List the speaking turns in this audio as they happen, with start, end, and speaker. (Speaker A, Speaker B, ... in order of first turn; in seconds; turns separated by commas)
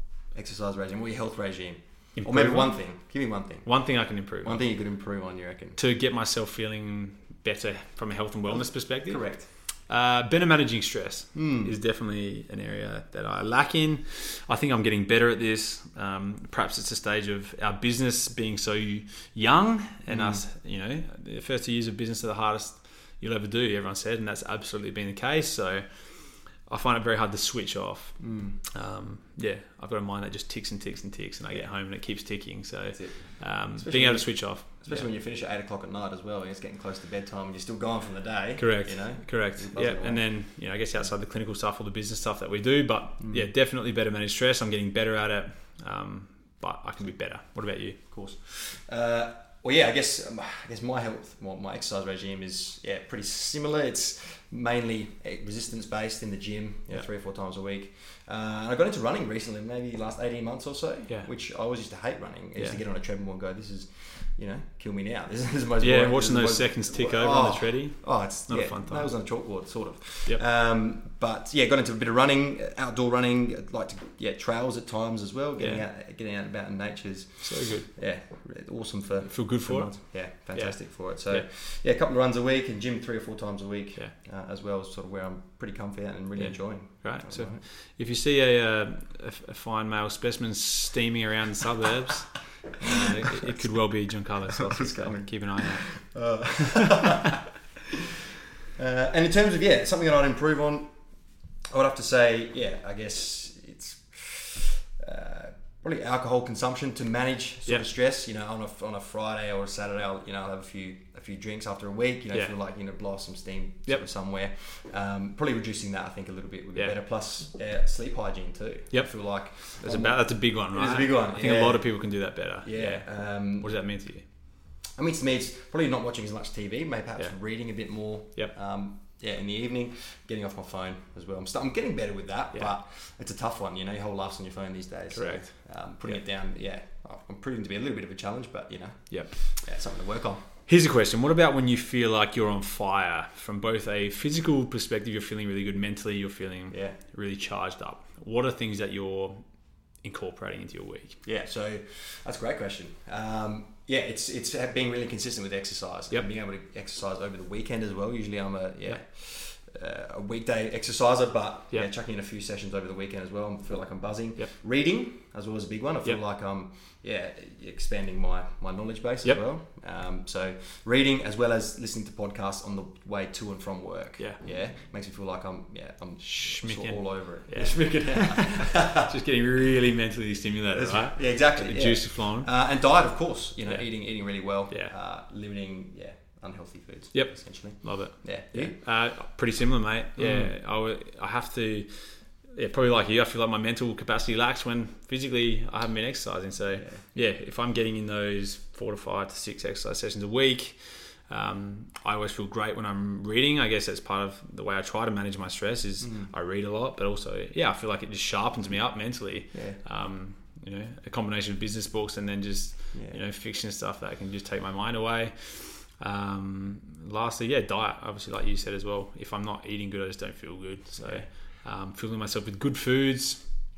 Speaker A: 0.3-5.8, Speaker B: 2.2-2.8, Speaker B: 3.6-4.6, Speaker B: 5.8-35.1, Speaker A: 8.5-9.5, Speaker A: 11.3-11.7, Speaker A: 20.1-20.4, Speaker A: 28.2-28.6, Speaker A: 32.9-40.2, Speaker B: 38.6-48.0, Speaker A: 43.2-43.5, Speaker A: 48.1-87.6, Speaker B: 62.6-62.8, Speaker B: 65.8-69.4, Speaker B: 75.6-75.8, Speaker B: 77.4-78.0, Speaker B: 79.2-81.5, Speaker B: 86.4-97.0, Speaker A: 94.5-97.5, Speaker A: 98.8-101.0, Speaker A: 101.7-123.8, Speaker B: 118.9-124.3, Speaker A: 124.9-140.4, Speaker B: 135.1-136.2, Speaker B: 140.7-149.4, Speaker A: 146.7-147.0, Speaker B: 149.9-151.2, Speaker A: 151.2-179.1, Speaker B: 176.2-182.6, Speaker A: 180.7-188.8, Speaker B: 183.7-184.9, Speaker B: 187.1-223.5, Speaker A: 190.2-190.5, Speaker A: 196.8-197.0, Speaker A: 206.0-206.3, Speaker A: 209.5-209.8, Speaker A: 212.9-213.2, Speaker A: 221.0-221.3